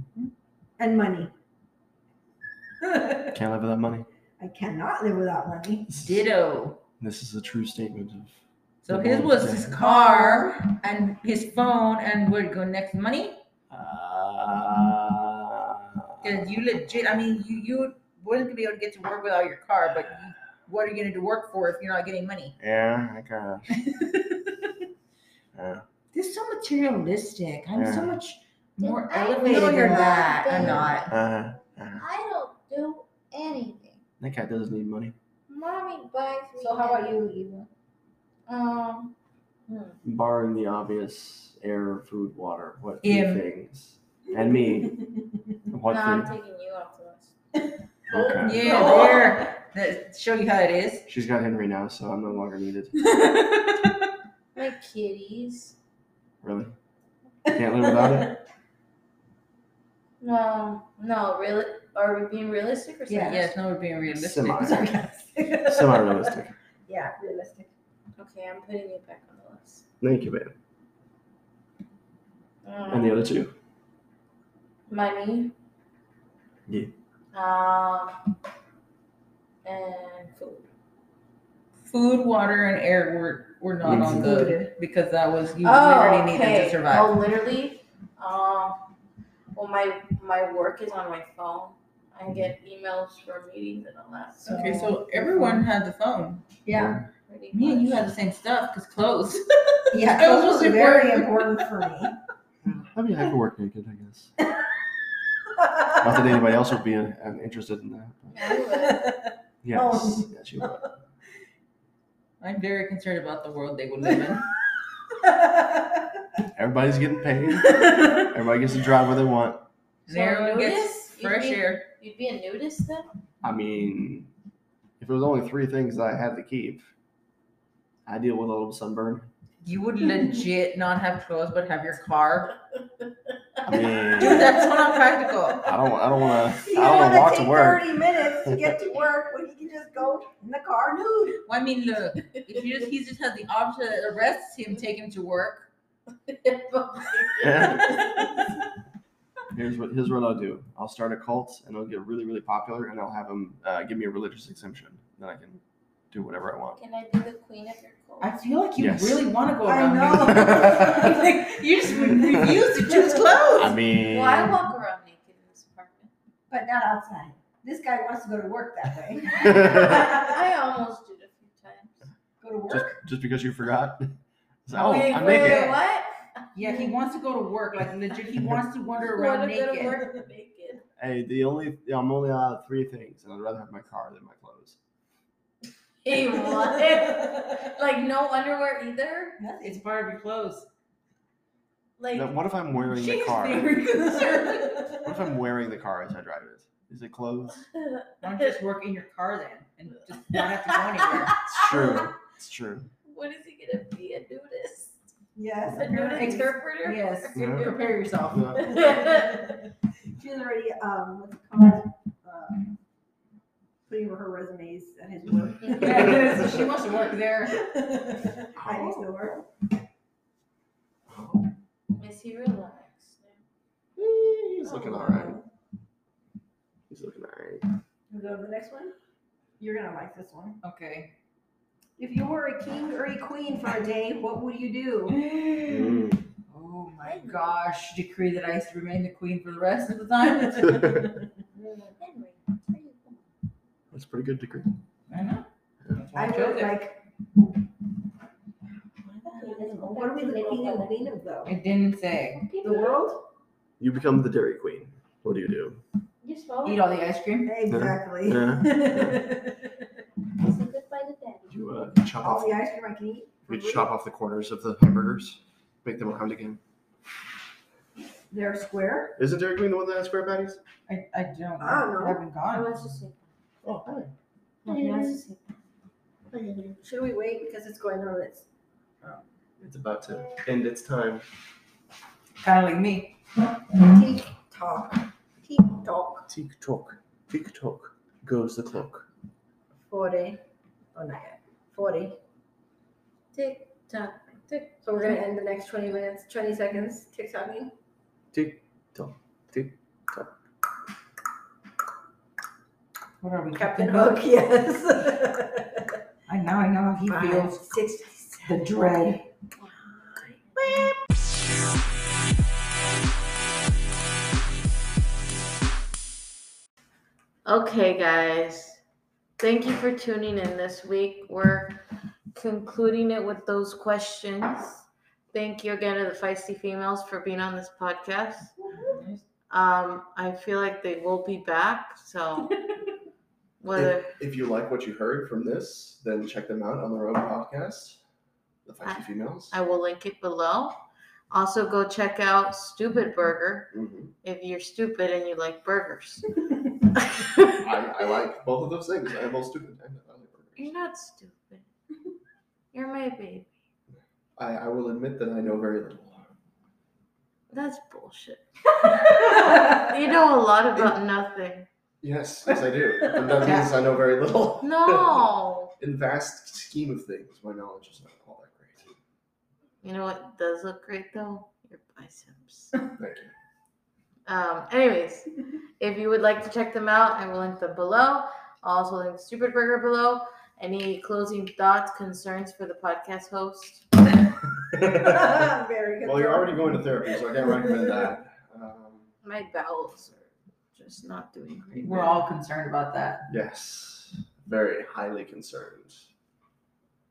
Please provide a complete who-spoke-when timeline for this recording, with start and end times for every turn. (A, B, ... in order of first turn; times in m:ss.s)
0:00.8-0:01.3 A
0:02.8-0:03.3 A
0:03.3-0:04.0 B
0:04.4-0:05.9 A
0:05.9-0:06.2 B
0:06.0-0:06.8 C
0:07.0-0:08.3 B
0:08.8-0:13.4 C
0:08.9-0:09.7 B
0:09.7-0:10.6 A
0:13.7-0:16.4 B
0:16.2-0:22.6 C
0:22.6-0:23.8 B
0:23.8-0:24.3 C
0:25.6-0:25.8 B
0:26.1-0:31.1 C
0:27.7-0:28.2 B
0:28.8-0:31.1 D
0:29.4-0:30.2 A
0:30.6-0:32.1 B
0:32.0-0:34.0 D
0:34.2-0:35.1 B
0:35.5-0:37.2 D
0:36.6-0:37.7 A
0:38.5-0:39.1 D
0:39.7-0:40.0 D
0:40.0-0:45.0 B
0:43.0-0:43.4 C
0:45.7-0:46.3 B
0:45.8-0:47.3 D
0:48.1-0:48.9 B
0:48.1-0:49.3 D
0:48.4-0:51.1 C
0:48.6-0:49.4 A
0:51.1-0:53.2 B
0:53.0-0:53.9 C
0:54.6-0:55.8 D
0:56.4-0:56.7 B
0:57.4-0:58.3 A
0:57.5-0:58.4 B
1:00.2-1:03.5 D
1:03.1-1:03.4 A
1:03.2-1:05.0 C
1:04.1-1:04.9 B
1:04.6-1:06.4 A
1:05.6-1:06.6 B
1:06.9-1:07.7 A
1:08.2-1:09.8 D
1:10.0-1:10.5 B
1:12.6-1:13.2 D
1:12.9-1:13.5 B
1:14.9-1:15.5 D
1:17.3-1:18.2 D
1:19.6-1:20.6 D
1:21.9-1:27.2 C
1:23.8-1:24.3 B
1:23.9-1:24.7 A
1:25.6-1:28.8 D
1:29.5-1:34.9 D
1:34.4-1:35.6 A
1:34.4-1:36.4 C
1:36.6-1:37.0 A
1:36.7-1:37.0 B
1:37.3-1:38.0 D
1:37.5-1:41.7 C
1:39.9-1:42.1 A
1:42.6-1:44.3 B
1:46.0-1:48.3 B
1:48.3-1:49.2 D
1:48.5-1:50.8 A
1:49.6-1:50.9 B
1:52.4-1:54.4 C
1:55.3-1:55.8 A
1:56.6-1:59.6 B
1:57.7-1:58.2 A
2:00.1-2:01.8 C
2:00.1-2:03.1 D
2:03.4-2:04.3 B
2:05.0-2:06.9 B
2:08.0-2:09.3 B
2:09.6-2:12.6 C
2:13.6-2:14.5 B
2:14.1-2:15.7 C
2:15.6-2:17.9 B
2:16.6-2:21.4 A
2:18.4-2:18.7 B
2:21.4-2:25.7 C
2:26.3-2:28.0 D
2:27.4-2:28.2 B
2:27.6-2:28.4 C
2:29.5-2:36.8 B
2:36.8-2:38.3 D
2:38.2-2:43.8 C
2:38.8-2:39.2 B
2:39.6-2:43.5 A
2:40.2-2:41.2 B
2:42.1-2:42.5 B
2:43.6-2:44.6 B
2:43.9-2:46.1 D
2:46.5-2:50.2 A
2:49.3-2:52.0 D
2:49.4-2:50.0 B
2:52.4-2:52.9 A
2:52.7-2:54.1 B
2:54.6-2:55.8 B
2:54.7-2:56.1 D
2:54.8-2:55.8 C
2:56.5-3:00.0 C
2:59.1-3:00.8 D
3:01.0-3:04.8 B
3:06.0-3:09.4 D
3:06.7-3:07.3 A
3:09.4-3:09.8 A
3:09.6-3:10.7 C
3:12.0-3:12.4 D
3:12.1-3:13.7 B
3:13.0-3:14.7 C
3:13.1-3:15.1 A
3:14.9-3:17.6 B
3:17.7-3:18.6 D
3:18.2-3:21.4 C
3:20.3-3:22.0 D
3:21.5-3:22.9 B
3:23.1-3:25.0 D
3:25.3-3:26.6 A
3:25.8-3:27.9 D
3:26.8-3:28.7 C
3:27.3-3:27.7 B
3:28.3-3:28.7 B
3:28.5-3:29.6 D
3:28.6-3:29.6 A
3:30.1-3:32.6 A
3:33.9-3:36.6 A
3:35.6-3:37.6 C
3:37.5-3:39.5 A
3:38.6-3:39.4 B
3:41.1-3:41.5 B
3:42.0-3:43.4 D
3:44.0-3:45.4 B
3:44.6-3:45.4 A
3:46.9-3:47.6 B
3:48.1-3:48.9 A
3:49.6-3:50.6 A
3:50.6-3:51.1 C
3:52.0-3:55.2 A
3:55.1-4:01.1 C
3:55.7-3:56.2 B
3:57.0-3:57.5 D
4:01.6-4:03.1 D
4:03.9-4:04.7 B
4:05.1-4:06.8 C
4:06.1-4:07.0 A
4:09.0-4:09.7 C
4:09.4-4:10.9 D
4:09.5-4:11.5 A
4:11.4-4:12.4 C
4:12.3-4:13.0 D
4:12.6-4:13.2 A
4:13.8-4:15.8 B
4:16.2-4:16.9 D
4:16.6-4:17.6 C
4:17.4-4:19.8 A
4:17.7-4:19.3 B
4:20.4-4:21.5 D
4:21.5-4:22.6 B
4:22.2-4:23.4 A
4:23.5-4:26.6 B
4:23.5-4:23.8 D
4:28.3-4:29.2 A
4:29.2-4:30.6 B
4:30.9-4:32.7 C
4:31.6-4:32.2 A
4:32.5-4:33.2 D
4:33.6-4:34.1 B
4:34.6-4:35.4 D
4:34.7-4:35.2 A
4:36.3-4:36.8 B
4:36.8-4:38.4 A
4:39.6-4:41.2 B
4:42.4-4:43.2 C
4:43.8-4:46.3 A
4:46.3-4:49.0 B
4:49.9-4:50.4 A
4:50.9-4:52.2 A
4:53.3-4:55.2 D
4:54.8-4:57.7 A
4:58.3-5:00.3 B
5:03.2-5:04.3 C
5:03.5-5:06.0 A
5:06.3-5:07.7 C
5:07.1-5:09.2 A
5:09.6-5:10.9 D
5:10.6-5:10.9 C
5:17.4-5:18.8 D
5:19.4-5:28.5 D
5:28.8-5:29.2 C
5:29.5-5:32.6 D
5:33.6-5:34.1 D
5:33.7-5:38.0 B
5:38.6-5:39.5 B
5:38.8-5:40.8 D
5:41.3-5:43.7 D
5:43.7-5:44.1 B
5:44.2-5:46.3 D
5:47.2-5:47.5 D
5:47.5-5:50.7 B
5:50.6-5:51.6 D
5:52.7-5:53.5 D
5:54.4-5:56.3 B
5:57.5-6:01.7 D
6:02.0-6:08.9 B
6:03.4-6:03.7 C
6:04.6-6:05.7 D
6:09.8-6:12.7 D
6:12.9-6:13.3 B
6:14.3-6:15.3 D
6:15.8-6:23.9 D
6:24.7-6:25.4 B
6:24.8-6:27.2 A
6:26.0-6:29.1 B
6:27.7-6:28.0 A
6:29.2-6:32.3 D
6:31.8-6:33.3 C
6:33.3-6:36.1 B